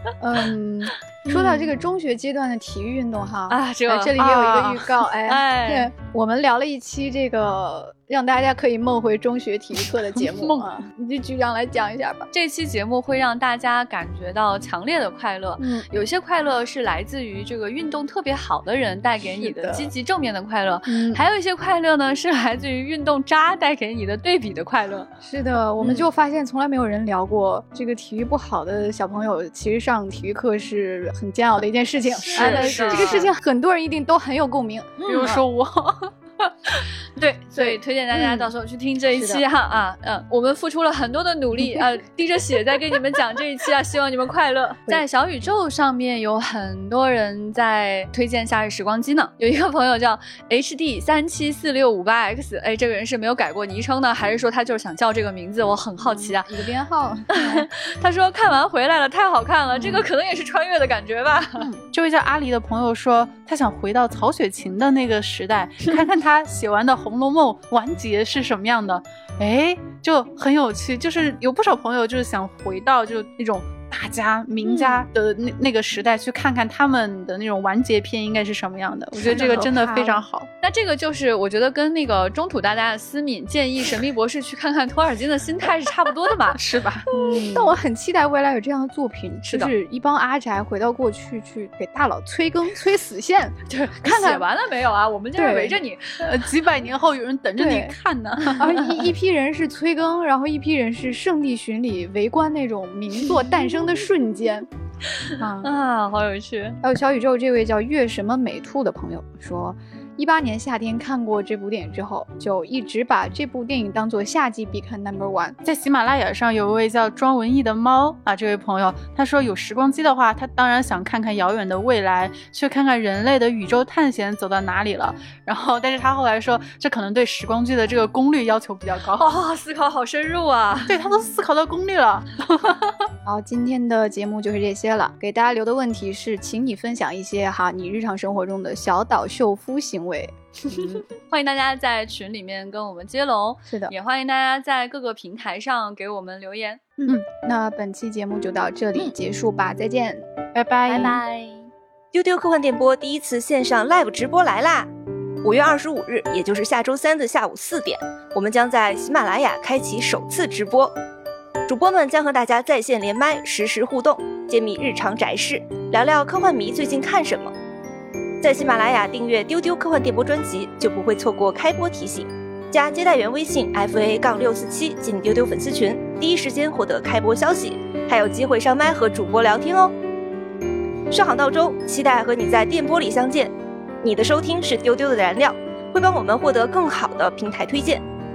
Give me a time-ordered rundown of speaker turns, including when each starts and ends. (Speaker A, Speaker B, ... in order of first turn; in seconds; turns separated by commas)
Speaker A: 0.2-12.3, Speaker B: 1.3-1.7, Speaker B: 3.5-4.2, Speaker C: 4.2-5.0, Speaker B: 5.3-5.9, Speaker C: 10.1-10.7, Speaker B: 12.3-25.1, Speaker A: 15.6-15.9, Speaker A: 19.4-19.9, Speaker A: 20.9-21.2, Speaker A: 25.2-35.4, Speaker C: 32.3-33.3, Speaker B: 32.3-33.3, Speaker B: 35.0-35.3, Speaker C: 35.0-36.1, Speaker B: 37.1-56.5, Speaker A: 37.6-38.5, Speaker A: 39.1-39.4, Speaker A: 56.0-57.7, Speaker B: 57.3-61.7, Speaker C: 61.9-80.5, Speaker B: 74.7-75.1, Speaker A: 79.2-80.2, Speaker B: 80.6-87.7, Speaker C: 86.5-87.1, Speaker A: 87.1-94.5, Speaker B: 93.7-96.5, Speaker A: 95.4-95.8, Speaker C: 96.2-98.9, Speaker A: 97.6-98.0, Speaker A: 98.5-104.7, Speaker B: 105.3-106.8, Speaker A: 105.4-105.7, Speaker A: 106.8-115.6, Speaker C: 115.6-129.3, Speaker B: 129.2-130.9, Speaker C: 130.9-132.7, Speaker A: 133.2-140.4, Speaker B: 140.7-146.8, Speaker A: 143.7-143.9, Speaker A: 147.0-150.3, Speaker C: 150.5-151.2, Speaker A: 150.9-151.2, Speaker B: 150.9-151.7, Speaker D: 152.1-154.9, Speaker D: 155.4-160.9, Speaker D: 161.7-167.5, Speaker D: 168.4-180.0, Speaker D: 181.1-188.0